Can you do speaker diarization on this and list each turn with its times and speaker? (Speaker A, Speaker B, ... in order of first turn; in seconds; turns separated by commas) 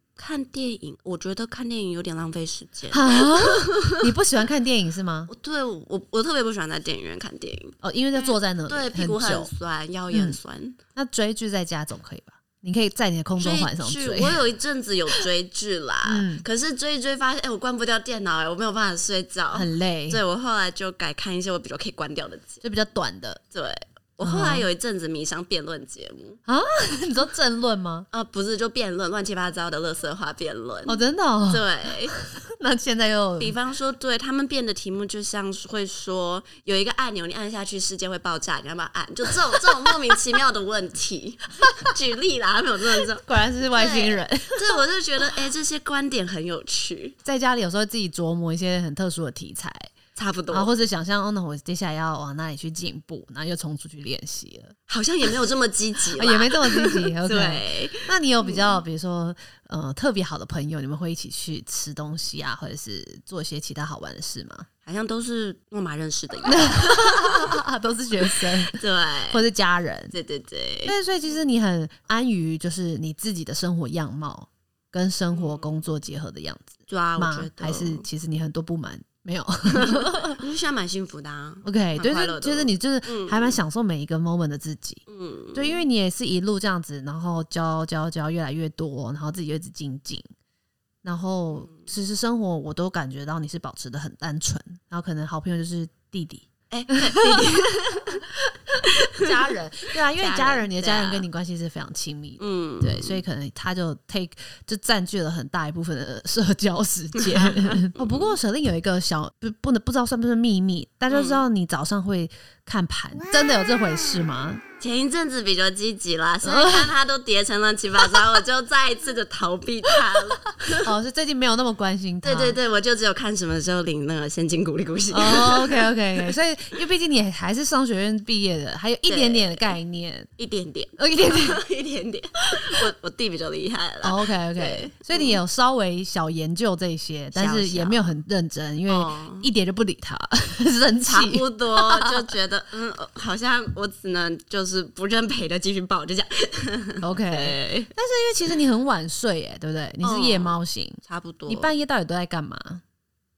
Speaker A: 0.2-4.1, Speaker B: 2.9-5.3, Speaker A: 5.3-10.8, Speaker B: 7.8-9.5, Speaker B: 10.1-10.4, Speaker B: 10.9-14.4, Speaker A: 13.4-22.6, Speaker B: 16.0-16.4, Speaker B: 19.5-20.2, Speaker B: 22.6-23.4, Speaker A: 23.5-26.4, Speaker B: 24.2-24.7, Speaker B: 26.5-28.1, Speaker A: 28.1-32.1, Speaker B: 30.9-33.5, Speaker A: 33.4-47.1, Speaker B: 43.2-44.8, Speaker B: 47.2-49.9, Speaker A: 50.1-50.7, Speaker B: 50.5-54.8, Speaker A: 54.9-58.8, Speaker B: 56.1-64.7, Speaker A: 64.8-67.6, Speaker B: 66.5-70.1, Speaker A: 68.3-69.4, Speaker A: 70.1-70.9, Speaker B: 70.8-80.4, Speaker A: 75.3-75.8, Speaker A: 76.9-78.0, Speaker A: 79.7-83.6, Speaker B: 81.6-85.0, Speaker A: 85.1-85.8, Speaker B: 85.5-90.3, Speaker B: 91.0-97.4, Speaker A: 96.7-98.2, Speaker B: 98.7-114.6, Speaker A: 100.2-101.3, Speaker A: 102.4-103.2, Speaker A: 107.2-108.4, Speaker A: 111.1-111.4, Speaker A: 114.8-120.9, Speaker B: 116.4-116.9, Speaker B: 120.7-122.6, Speaker A: 122.2-126.3, Speaker B: 125.1-130.3, Speaker A: 129.1-129.8, Speaker A: 130.4-135.4, Speaker B: 131.0-131.6, Speaker B: 134.0-142.3, Speaker A: 137.3-138.1, Speaker A: 138.9-139.5, Speaker A: 141.0-147.9, Speaker B: 147.0-152.8, Speaker A: 150.0-151.7